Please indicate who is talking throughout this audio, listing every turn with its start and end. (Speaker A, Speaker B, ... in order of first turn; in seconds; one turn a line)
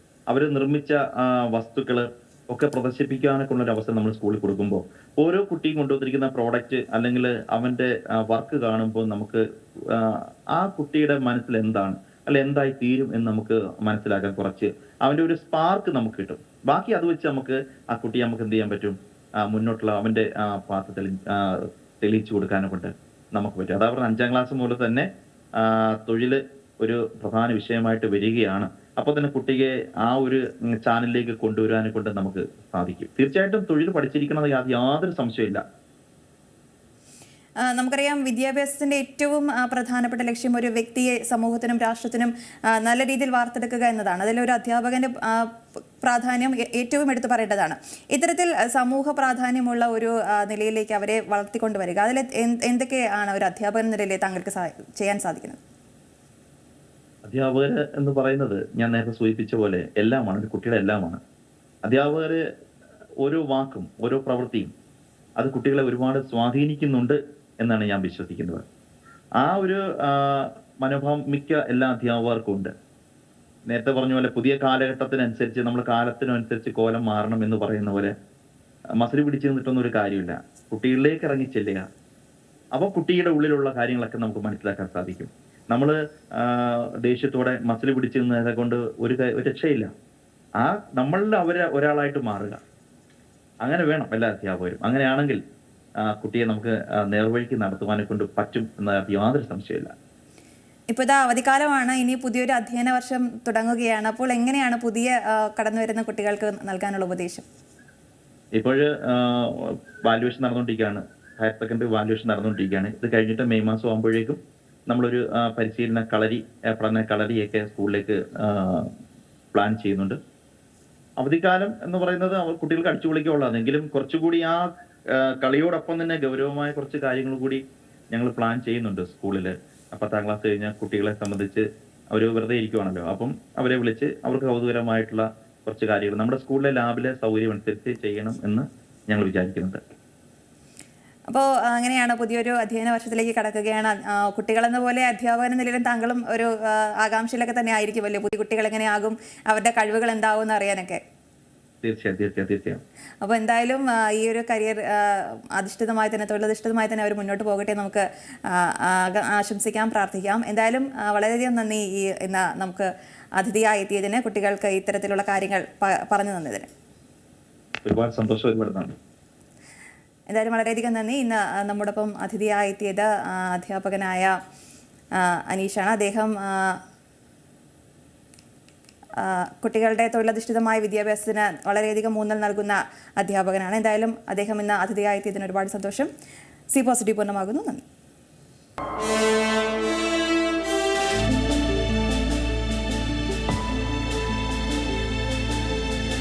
Speaker A: 0.3-35.6
Speaker B: 37.7-55.6
Speaker A: 57.2-61.2
Speaker A: 61.8-62.4
Speaker A: 63.2-64.7
Speaker A: 65.4-68.6
Speaker A: 69.4-72.7
Speaker A: 73.7-78.1
Speaker A: 79.0-81.8
Speaker A: 82.7-89.9
Speaker A: 90.6-92.6
Speaker A: 93.6-95.4
Speaker A: 96.0-99.9
Speaker B: 100.9-107.4
Speaker A: 108.5-114.4
Speaker A: 114.9-118.9
Speaker A: 119.5-120.2
Speaker A: 121.2-139.8
Speaker B: 141.3-151.0
Speaker A: 151.8-152.8
Speaker B: 153.2-166.7
Speaker A: 167.8-168.9
Speaker B: 170.3-174.3
Speaker B: 175.2-176.8
Speaker B: 179.2-186.1
Speaker B: 186.7-187.8